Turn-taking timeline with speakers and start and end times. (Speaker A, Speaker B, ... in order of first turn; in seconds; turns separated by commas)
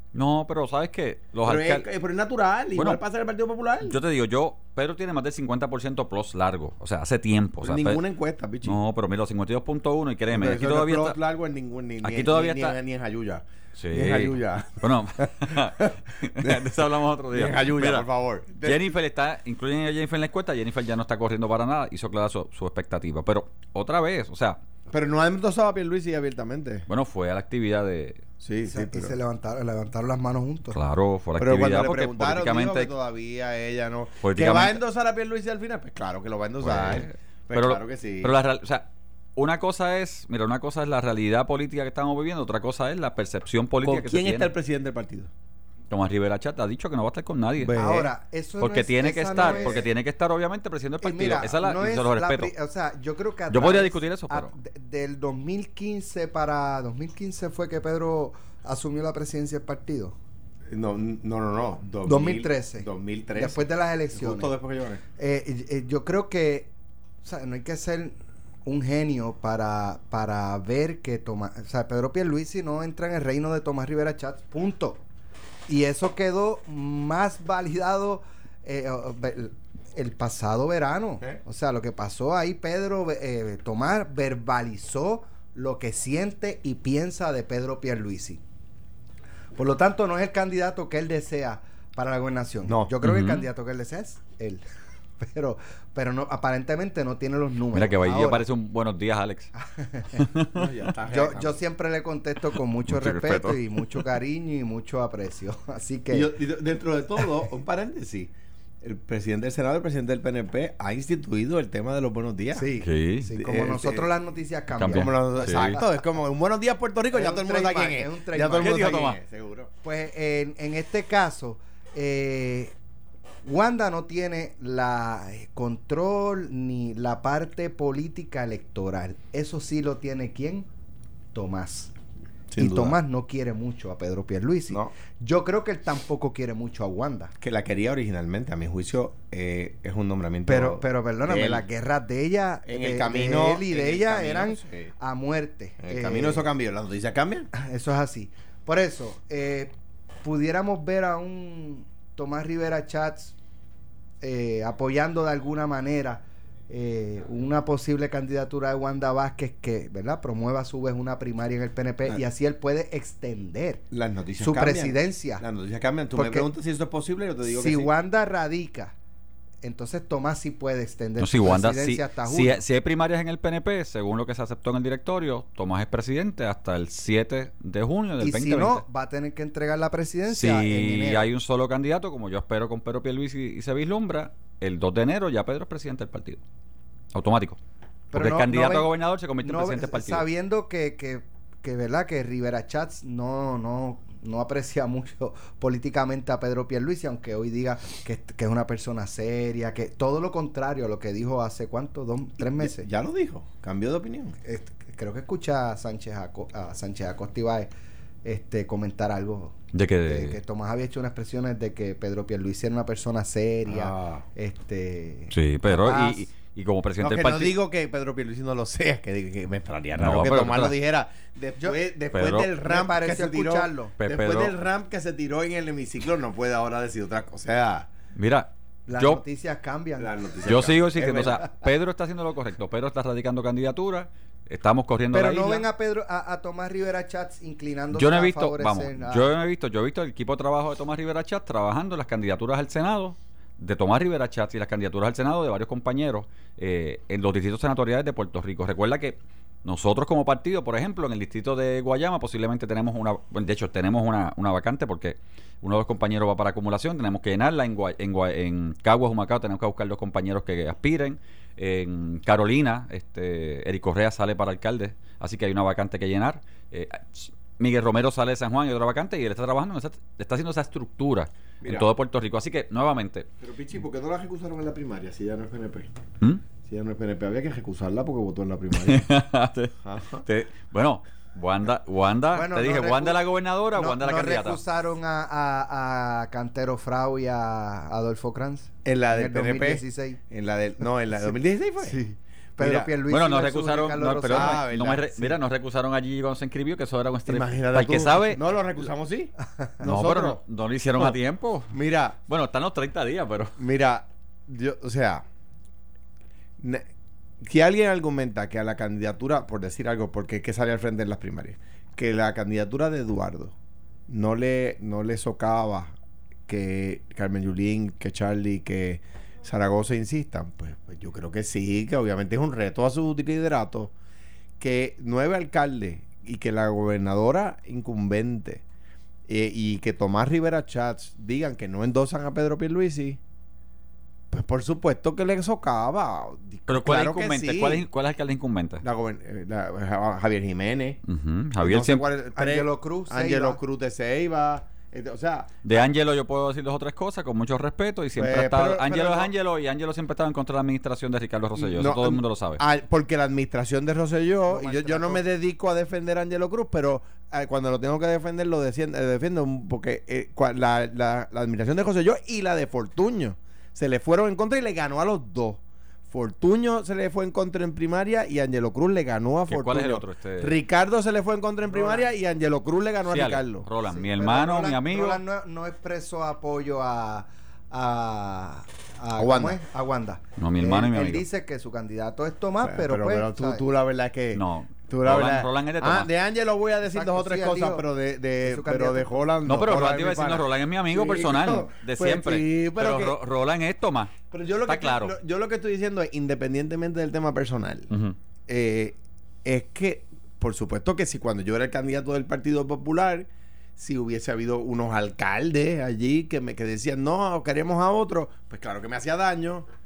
Speaker A: 0.1-1.9, Speaker B: 1.4-4.0, Speaker A: 3.8-8.0, Speaker B: 7.6-8.8, Speaker A: 8.6-11.2, Speaker B: 10.3-18.8, Speaker A: 12.0-12.8, Speaker A: 13.8-18.1, Speaker A: 18.6-24.6, Speaker B: 24.9-26.9, Speaker A: 26.9-28.2, Speaker B: 28.4-29.1, Speaker C: 28.7-30.8, Speaker A: 30.7-32.9, Speaker B: 31.4-38.3, Speaker A: 34.2-34.8, Speaker A: 36.6-44.5, Speaker B: 43.8-45.3, Speaker A: 45.9-47.9, Speaker B: 47.6-48.1, Speaker C: 47.8-49.9, Speaker A: 48.6-52.5, Speaker B: 49.4-49.9, Speaker C: 51.0-60.1, Speaker A: 53.5-54.5, Speaker B: 60.7-63.6, Speaker C: 62.0-64.5, Speaker B: 64.1-65.0, Speaker C: 65.2-66.7, Speaker C: 67.2-68.1, Speaker C: 68.7-75.0, Speaker C: 75.7-88.4, Speaker C: 89.5-94.6, Speaker B: 92.7-92.9, Speaker A: 93.0-93.5, Speaker C: 95.2-98.4, Speaker A: 97.7-99.5, Speaker C: 99.6-100.2, Speaker A: 100.1-100.7, Speaker B: 100.5-101.6, Speaker C: 101.1-106.3, Speaker A: 102.9-104.1, Speaker B: 106.1-108.3, Speaker B: 108.8-112.7, Speaker C: 112.5-115.8, Speaker A: 112.8-113.3, Speaker B: 113.3-114.1, Speaker A: 114.8-115.7, Speaker B: 114.9-119.7, Speaker C: 117.1-119.1, Speaker A: 118.5-119.2, Speaker C: 119.8-122.7, Speaker C: 123.4-130.7, Speaker C: 131.3-131.9, Speaker B: 132.5-133.0, Speaker C: 132.6-137.3, Speaker B: 137.4-141.7, Speaker C: 140.4-146.5, Speaker B: 142.7-144.9, Speaker B: 145.8-147.5, Speaker C: 147.5-149.7, Speaker C: 150.2-153.3, Speaker C: 154.2-163.8, Speaker B: 163.9-167.9, Speaker C: 164.4-165.4, Speaker C: 166.1-166.5, Speaker C: 167.4-168.9, Speaker C: 169.6-172.6, Speaker A: 171.2-178.8, Speaker C: 178.2-181.2, Speaker A: 180.3-186.4, Speaker A: 187.1-187.6, Speaker C: 188.1-188.9, Speaker A: 188.1-190.2, Speaker C: 189.4-202.9, Speaker B: 202.4-204.3, Speaker C: 204.4-207.7, Speaker C: 208.2-209.5, Speaker A: 209.7-210.4, Speaker C: 210.1-216.2, Speaker B: 213.7-214.2, Speaker A: 215.3-217.5, Speaker B: 217.0-227.9, Speaker A: 220.0-220.7, Speaker A: 222.1-222.5, Speaker C: 222.6-223.9, Speaker A: 224.0-224.5, Speaker A: 228.2-229.2, Speaker C: 228.9-230.1, Speaker B: 230.0-231.5, Speaker A: 230.4-235.6, Speaker C: 235.1-239.3, Speaker A: 237.9-273.3, Speaker B: 271.6-271.9, Speaker B: 273.4-275.9, Speaker B: 276.6-279.1, Speaker A: 278.8-284.6, Speaker B: 279.8-280.2, Speaker C: 282.3-283.2, Speaker C: 283.7-290.2, Speaker B: 288.8-292.0, Speaker C: 291.8-294.6, Speaker B: 292.6-292.9, Speaker A: 293.1-298.4, Speaker B: 294.3-295.4, Speaker B: 297.2-300.4, Speaker A: 299.8-303.6, Speaker B: 301.7-302.2, Speaker B: 303.6-305.2, Speaker B: 306.6-306.9, Speaker B: 307.4-313.5, Speaker B: 314.1-315.9, Speaker B: 316.5-323.9, Speaker B: 324.6-328.6, Speaker B: 329.3-333.2, Speaker B: 334.3-337.9, Speaker A: 336.7-338.8, Speaker B: 338.8-341.0, Speaker A: 341.1-342.0, Speaker B: 341.6-345.8, Speaker C: 342.3-343.6, Speaker A: 345.6-352.6, Speaker B: 348.2-349.3, Speaker B: 351.6-373.6, Speaker C: 354.5-355.2, Speaker A: 369.5-370.6, Speaker C: 371.7-372.1, Speaker A: 373.1-375.2, Speaker C: 373.9-383.6, Speaker B: 379.2-379.6, Speaker A: 380.4-381.2, Speaker B: 382.6-393.2, Speaker A: 384.3-386.1, Speaker C: 386.9-387.8, Speaker C: 388.4-389.1, Speaker A: 389.4-394.1, Speaker B: 394.3-397.9, Speaker A: 394.7-395.1, Speaker A: 397.9-398.1, Speaker B: 398.5-409.7